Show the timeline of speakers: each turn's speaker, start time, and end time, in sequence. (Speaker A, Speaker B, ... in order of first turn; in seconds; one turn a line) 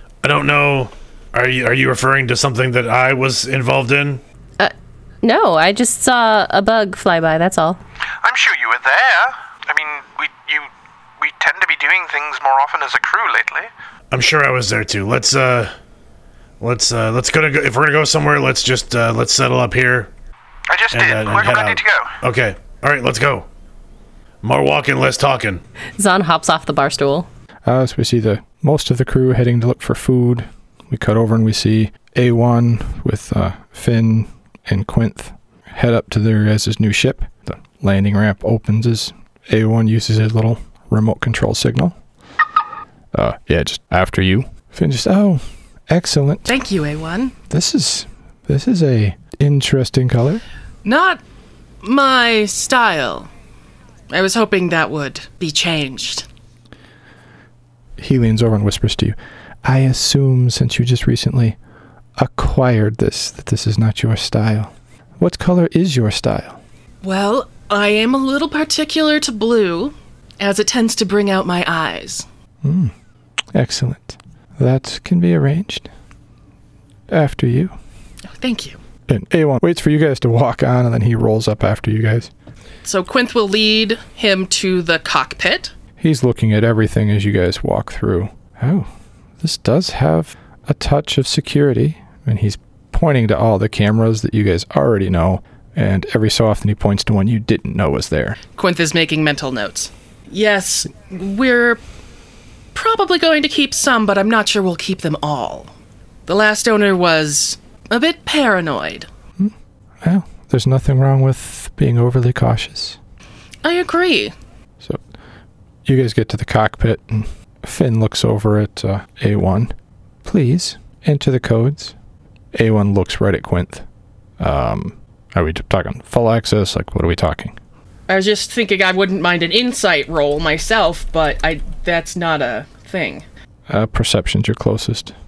Speaker A: 0.2-4.2
Speaker B: 4.6-7.8
Speaker C: 8.2-13.7
Speaker A: 14.1-15.7
Speaker A: 16.6-20.1
Speaker C: 20.7-22.1
Speaker A: 20.9-23.5
Speaker A: 24.4-25.6
Speaker B: 26.0-27.3
Speaker D: 27.6-42.0
Speaker D: 43.1-46.6
Speaker E: 46.5-47.3
Speaker D: 47.5-50.4
Speaker E: 50.9-51.2
Speaker E: 51.8-53.3
Speaker E: 54.1-56.3
Speaker D: 58.0-61.6
Speaker D: 62.2-66.6
Speaker E: 67.0-72.3
Speaker D: 72.6-72.9
Speaker D: 73.5-75.9
Speaker D: 77.1-77.8
Speaker E: 78.4-78.8
Speaker D: 79.1-82.3
Speaker E: 82.8-85.7
Speaker D: 86.0-88.9
Speaker D: 89.4-98.4
Speaker E: 98.6-101.8
Speaker E: 102.7-105.7
Speaker E: 106.3-109.1
Speaker D: 109.4-113.0
Speaker E: 113.6-114.3
Speaker D: 115.9-119.7
Speaker D: 120.2-122.0
Speaker D: 122.5-123.8
Speaker D: 124.4-127.6
Speaker E: 128.1-133.2
Speaker D: 133.7-135.2